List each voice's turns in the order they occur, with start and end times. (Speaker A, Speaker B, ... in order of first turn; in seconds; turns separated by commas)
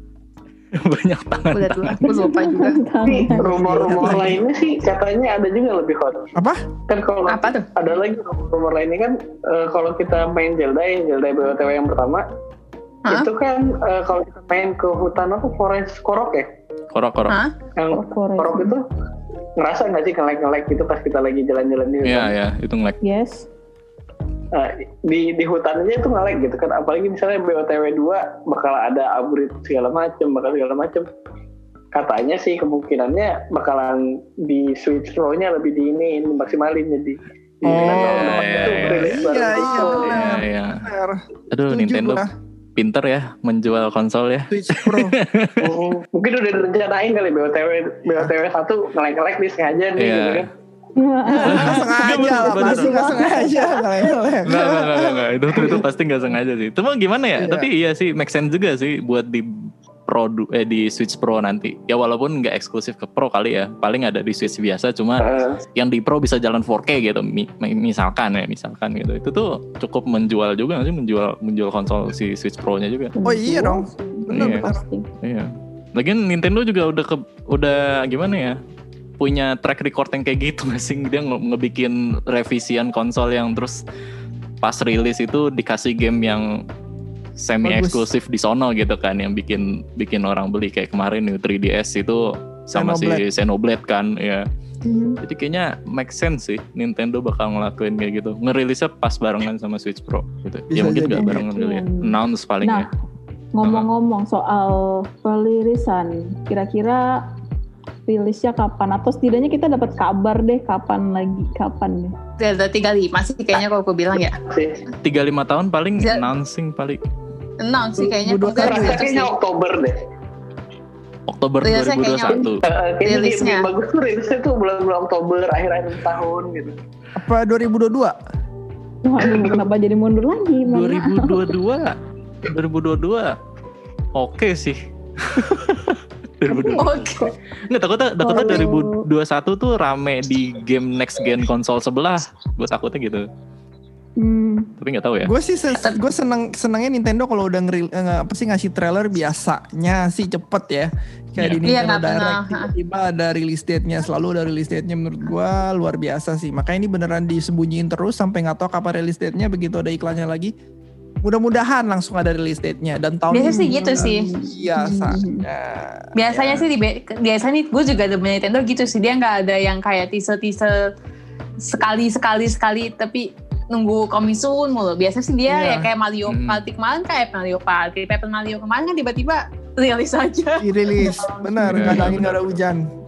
Speaker A: 0.8-2.3, Speaker B: 1.5-2.9, Speaker C: 2.0-4.2, Speaker D: 3.0-6.3, Speaker E: 3.5-4.4, Speaker E: 6.3-6.6, Speaker D: 6.9-12.3, Speaker B: 7.3-7.7, Speaker D: 13.1-16.5, Speaker A: 16.9-17.4, Speaker B: 17.3-17.5, Speaker D: 17.8-18.9, Speaker C: 17.9-18.8, Speaker D: 19.6-22.3, Speaker A: 22.0-23.0, Speaker C: 23.0-23.5, Speaker D: 24.5-31.1, Speaker D: 31.9-40.3, Speaker E: 37.6-42.3, Speaker A: 37.7-39.3, Speaker A: 40.0-40.8, Speaker A: 41.5-42.2, Speaker A: 42.8-45.8, Speaker E: 44.5-45.2, Speaker D: 45.6-50.5, Speaker A: 50.0-50.5, Speaker C: 51.0-53.9, Speaker E: 51.4-55.8, Speaker A: 51.4-53.2, Speaker A: 54.5-59.5, Speaker E: 57.4-57.7, Speaker A: 60.1-73.1, Speaker D: 65.2-65.6, Speaker C: 73.2-75.1, Speaker E: 73.2-74.8, Speaker A: 74.3-74.7, Speaker A: 75.2-78.6, Speaker A: 79.2-83.8, Speaker A: 84.6-86.7, Speaker A: 87.4-94.5, Speaker E: 87.6-88.1, Speaker E: 92.7-93.2, Speaker C: 94.8-95.2, Speaker A: 95.2-102.9, Speaker E: 100.7-101.5, Speaker C: 101.2-102.9, Speaker C: 103.5-107.3, Speaker C: 108.1-112.2, Speaker B: 112.4-114.4, Speaker D: 114.4-114.8, Speaker A: 115.0-117.0, Speaker B: 116.0-116.3, Speaker B: 117.6-119.3, Speaker E: 118.2-119.1, Speaker D: 118.5-120.0, Speaker A: 121.3-122.6, Speaker B: 121.6-123.7, Speaker D: 122.3-126.8, Speaker E: 127.2-128.2, Speaker C: 129.0-131.5, Speaker D: 129.2-129.6, Speaker A: 130.7-133.4, Speaker A: 134.2-143.3, Speaker C: 136.5-137.3, Speaker B: 136.8-137.3, Speaker C: 138.2-139.1, Speaker C: 144.2-144.7, Speaker A: 144.8-145.3, Speaker E: 145.2-160.5, Speaker A: 151.4-151.7, Speaker B: 151.7-152.7, Speaker E: 161.2-166.7, Speaker B: 163.3-164.3, Speaker C: 163.4-165.4, Speaker B: 166.2-170.9, Speaker B: 171.6-181.2, Speaker E: 175.5-175.9, Speaker A: 176.3-176.6, Speaker E: 180.6-182.9, Speaker C: 181.0-182.0, Speaker A: 181.7-182.5